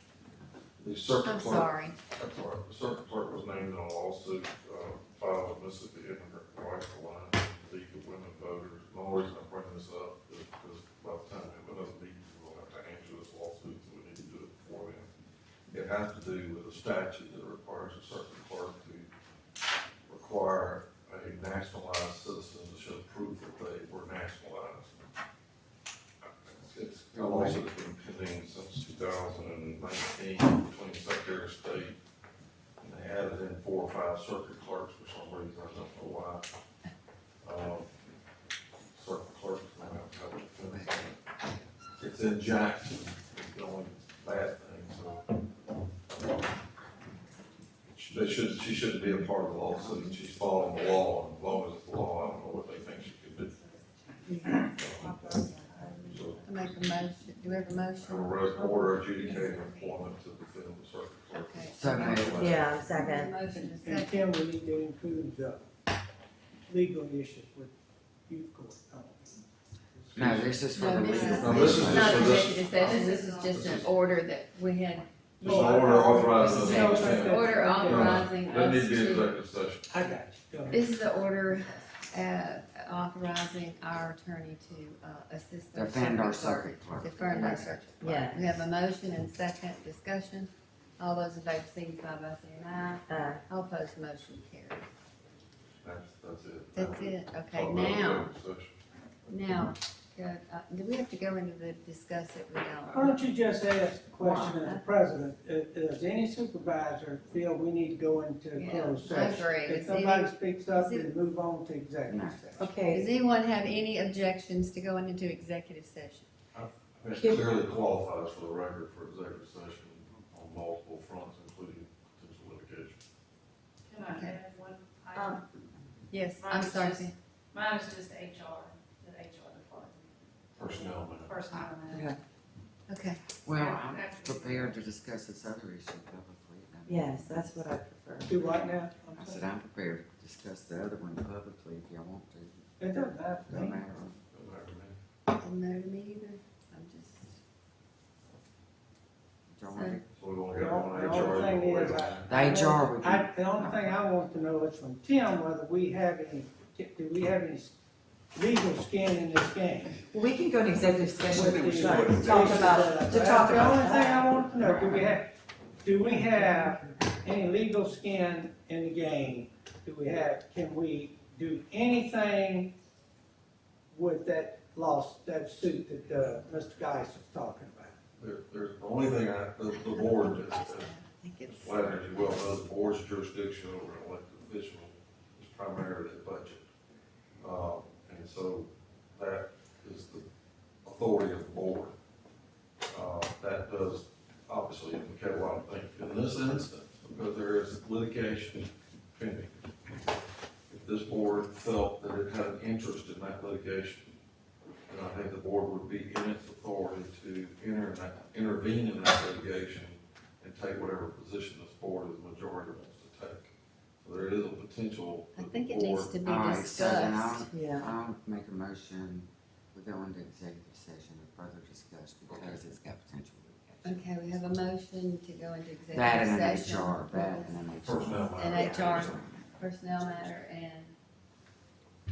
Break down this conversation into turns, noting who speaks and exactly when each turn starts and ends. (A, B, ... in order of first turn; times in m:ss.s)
0:00.8-0:15.1 A
0:01.2-0:02.0 B
0:15.7-0:19.1 A
0:20.1-0:25.0 A
0:26.5-0:32.0 A
0:26.9-0:27.7 C
0:32.8-0:36.5 A
0:37.4-0:37.9 A
0:38.9-0:41.2 A
0:40.6-0:41.0 C
0:42.0-0:45.2 A
0:47.9-0:53.6 A
0:49.7-0:50.2 B
0:54.2-0:56.4 D
0:54.6-0:55.3 A
0:56.1-0:56.4 A
0:56.4-0:59.9 B
0:58.0-1:02.7 A
1:01.3-1:04.3 B
1:01.7-1:02.5 C
1:02.4-1:03.3 D
1:03.5-1:05.7 E
1:06.7-1:07.7 E
1:08.3-1:10.4 E
1:10.1-1:12.5 C
1:10.2-1:10.5 A
1:10.7-1:19.3 B
1:11.2-1:13.9 A
1:12.6-1:13.8 F
1:15.4-1:18.3 E
1:15.4-1:19.8 A
1:19.9-1:20.9 E
1:20.7-1:34.9 B
1:25.7-1:27.8 C
1:28.0-1:28.6 D
1:33.1-1:33.4 D
1:35.8-1:38.7 A
1:36.7-1:38.3 B
1:39.3-1:43.2 B
1:42.9-1:52.7 E
1:44.2-1:44.8 B
1:48.6-1:51.1 B
1:52.1-1:52.5 C
1:52.6-1:53.1 D
1:52.9-1:56.3 B
1:56.5-2:03.0 A
1:57.1-1:57.4 D
2:03.9-2:05.4 F
2:04.1-2:04.4 B
2:05.1-2:05.4 D
2:06.1-2:07.1 B
2:06.4-2:12.1 F
2:10.6-2:11.5 A
2:11.9-2:12.2 D
2:12.9-2:13.2 B
2:13.4-2:17.5 C
2:13.5-2:14.8 F
2:16.9-2:18.4 D
2:18.2-2:19.5 E
2:19.1-2:24.2 C
2:22.8-2:23.8 E
2:24.3-2:25.0 A
2:25.3-2:27.4 B
2:29.5-2:30.0 C
2:29.7-2:30.0 B
2:30.2-2:32.3 A
2:30.5-2:37.8 E
2:32.3-2:34.0 C
2:38.3-2:40.0 E
2:40.1-2:44.4 D
2:41.2-2:45.3 E
2:41.4-2:42.9 A
2:44.6-2:45.2 C
2:45.8-2:52.7 E
2:46.0-2:46.9 D
2:53.9-2:58.0 E
2:58.2-3:00.9 A
2:59.7-3:02.5 B
3:01.4-3:06.7 A
3:07.4-3:10.2 A
3:10.8-3:11.9 A
3:12.9-3:19.6 A
3:20.7-3:24.1 A
3:24.9-3:33.5 A
3:34.0-3:36.2 A
3:35.3-3:37.5 B
3:36.2-3:44.4 C
3:37.5-3:37.9 D
3:42.3-3:42.6 A
3:43.8-3:47.6 B
3:45.9-3:50.3 C
3:47.8-3:49.2 A
3:48.3-3:50.9 B